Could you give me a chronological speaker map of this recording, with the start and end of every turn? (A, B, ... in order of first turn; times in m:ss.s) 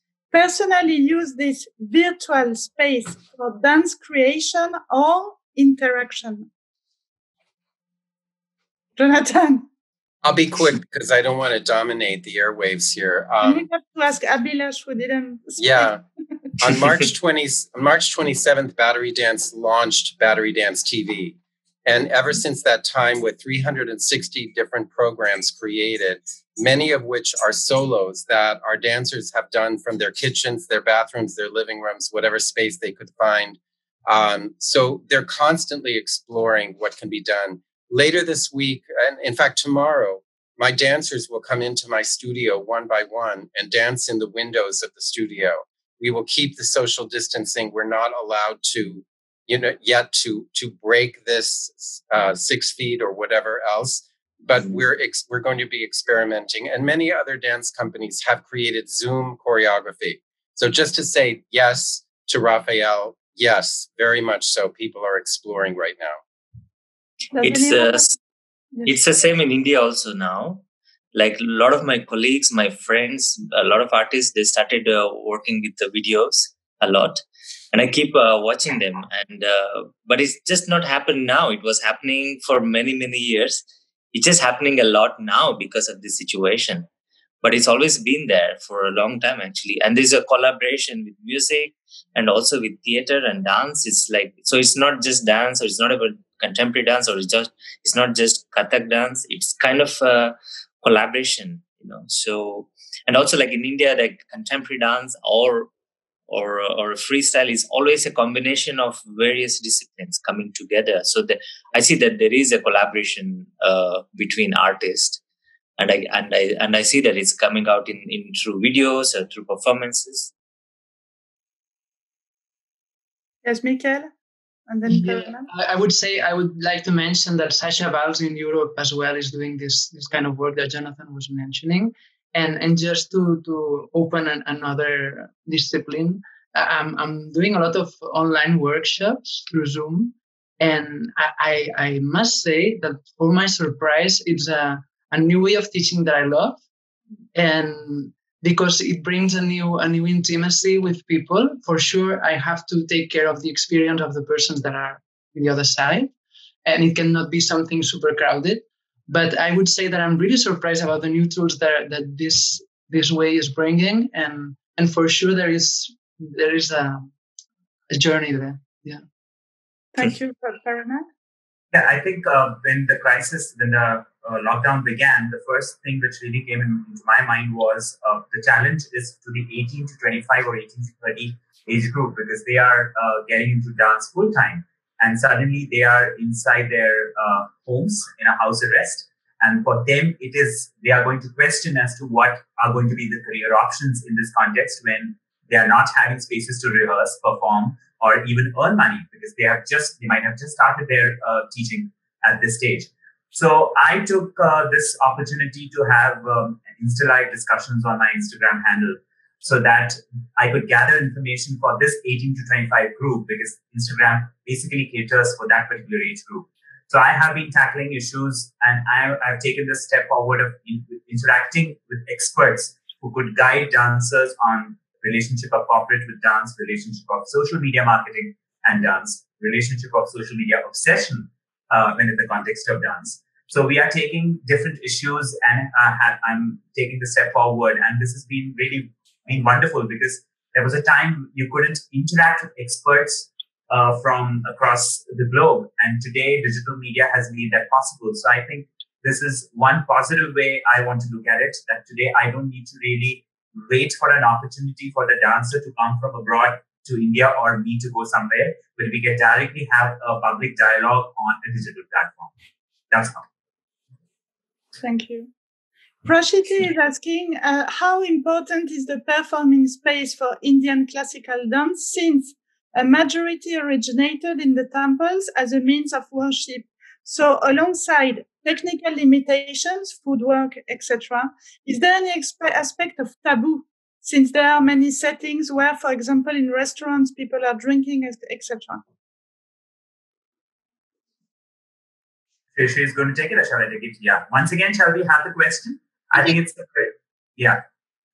0:00.3-0:06.5 A
0:09.0-0:09.7 A
0:10.2-0:13.7 B
0:13.4-0:15.9 A
0:15.6-0:16.0 B
0:16.6-1:06.2 B
1:07.3-1:08.1 A
1:07.4-1:08.2 C
1:08.9-1:26.9 C
1:27.4-1:45.7 C
1:46.3-1:55.2 C
1:55.8-2:00.3 C
2:03.4-2:04.1 A
2:04.7-2:05.5 A
2:04.9-2:26.6 D
2:27.3-2:36.1 D
2:36.6-2:47.1 D
2:47.9-2:49.0 D
2:49.9-2:51.1 A
2:51.7-4:22.3 E
4:22.9-4:23.2 E
4:24.8-4:25.3 A
4:26.0-4:48.8 A
4:52.6-4:57.6 E